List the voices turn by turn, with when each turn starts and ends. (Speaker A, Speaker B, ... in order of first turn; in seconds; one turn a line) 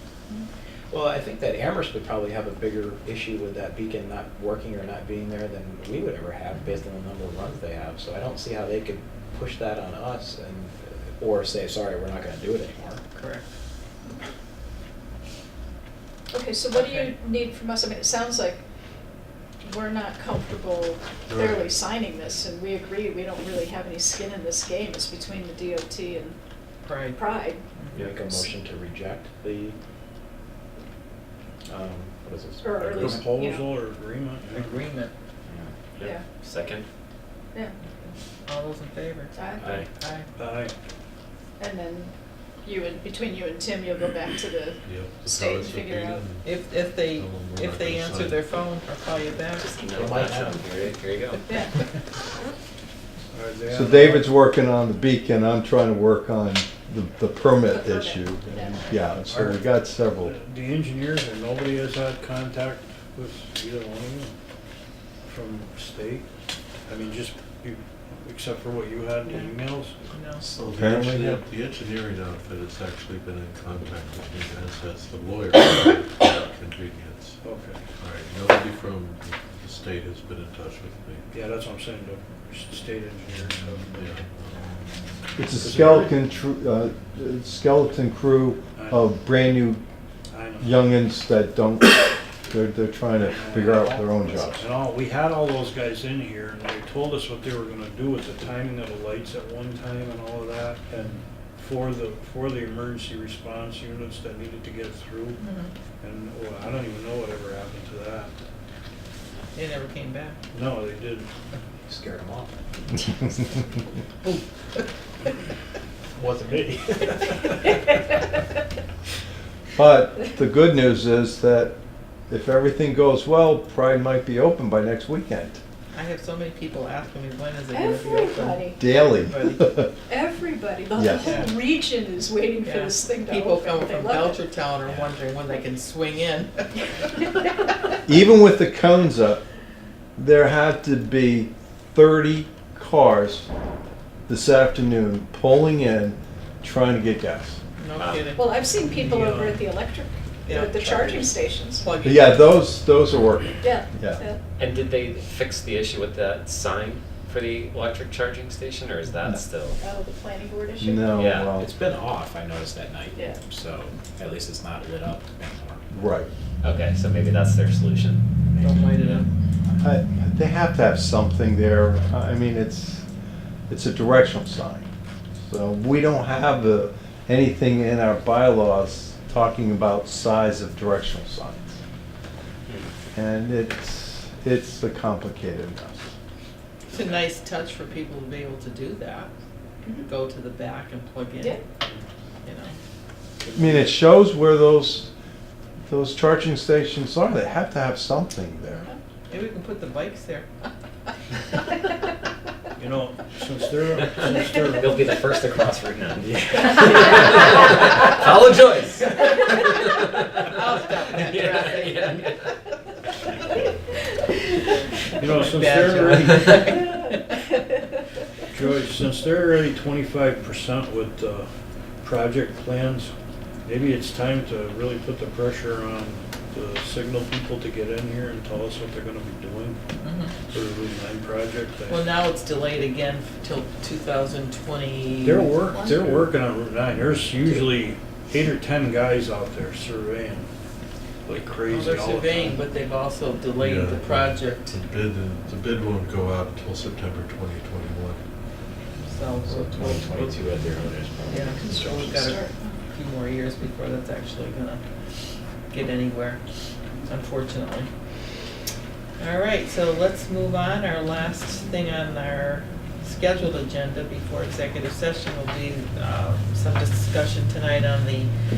Speaker A: 0.9-13.0
Speaker B: 13.1-13.5
Speaker C: 16.3-18.6
Speaker B: 16.7-17.1
Speaker C: 19.6-26.4
Speaker D: 21.3-21.8
Speaker B: 26.8-27.2
Speaker C: 27.1-27.6
Speaker B: 27.8-28.1
Speaker A: 27.9-29.8
Speaker A: 31.6-33.2
Speaker C: 32.6-33.7
Speaker E: 32.9-34.8
Speaker B: 34.5-35.1
Speaker A: 35.5-35.9
Speaker F: 35.9-36.9
Speaker C: 36.0-36.3
Speaker B: 38.0-39.4
Speaker C: 39.3-39.7
Speaker F: 39.6-39.9
Speaker B: 40.0-40.3
Speaker E: 40.4-40.7
Speaker C: 41.6-42.1
Speaker C: 42.6-46.2
Speaker D: 44.8-48.5
Speaker B: 46.4-49.7
Speaker F: 49.6-51.4
Speaker A: 49.9-50.9
Speaker C: 51.5-51.8
Speaker E: 53.3-54.4
Speaker G: 53.7-60.4
Speaker C: 57.6-59.0
Speaker E: 59.2-64.3
Speaker E: 65.2-66.3
Speaker E: 66.9-70.0
Speaker B: 69.2-70.4
Speaker D: 70.4-77.4
Speaker G: 70.7-71.4
Speaker E: 77.4-77.8
Speaker D: 78.0-81.2
Speaker E: 81.3-84.1
Speaker D: 83.9-84.9
Speaker G: 85.4-89.8
Speaker D: 85.6-85.9
Speaker E: 85.6-86.1
Speaker E: 88.8-89.0
Speaker E: 90.3-90.8
Speaker G: 90.6-94.7
Speaker E: 93.2-105.4
Speaker B: 105.4-105.7
Speaker E: 106.0-108.3
Speaker B: 109.5-110.4
Speaker E: 110.5-111.3
Speaker A: 111.8-112.5
Speaker A: 116.2-117.3
Speaker E: 116.9-117.2
Speaker G: 119.8-121.8
Speaker G: 122.3-125.6
Speaker B: 125.9-129.8
Speaker C: 127.7-128.8
Speaker G: 128.8-129.9
Speaker C: 130.1-134.4
Speaker G: 130.9-131.4
Speaker B: 131.0-131.6
Speaker B: 132.6-137.3
Speaker G: 138.0-139.4
Speaker G: 140.2-143.5
Speaker G: 144.3-147.6
Speaker B: 147.8-149.6
Speaker F: 147.9-148.3
Speaker C: 148.3-151.9
Speaker E: 149.0-149.5
Speaker B: 150.4-152.5
Speaker G: 152.0-154.2
Speaker C: 153.6-154.4
Speaker F: 154.6-159.8
Speaker C: 159.8-161.2
Speaker G: 160.8-161.7
Speaker F: 161.2-161.5
Speaker A: 161.5-165.9
Speaker C: 163.1-163.4
Speaker G: 165.9-166.3
Speaker F: 166.6-168.2
Speaker A: 168.6-169.2
Speaker B: 168.6-169.3
Speaker G: 169.8-173.0
Speaker G: 173.7-174.9
Speaker G: 175.4-181.8
Speaker G: 183.1-186.1
Speaker B: 186.9-189.3
Speaker B: 190.0-191.6
Speaker B: 192.4-192.7
Speaker E: 193.4-193.9
Speaker G: 193.6-195.1
Speaker G: 195.9-198.9
Speaker B: 198.7-200.5
Speaker E: 202.8-205.1
Speaker F: 204.8-210.5
Speaker B: 207.6-208.0
Speaker B: 209.4-209.6
Speaker B: 210.3-212.3
Speaker F: 211.2-212.4
Speaker E: 215.2-216.7
Speaker B: 215.2-217.6
Speaker E: 218.5-221.5
Speaker E: 222.0-223.1
Speaker E: 223.6-229.8
Speaker B: 230.0-230.3
Speaker E: 230.5-232.0
Speaker B: 231.9-235.5
Speaker E: 235.2-240.5
Speaker D: 236.0-236.3
Speaker E: 241.2-242.6
Speaker B: 241.7-244.6
Speaker D: 243.6-248.2
Speaker B: 249.0-250.3
Speaker A: 249.4-252.3
Speaker B: 251.3-254.8
Speaker C: 252.2-252.8
Speaker B: 255.7-256.4
Speaker B: 257.1-257.9
Speaker B: 259.2-268.3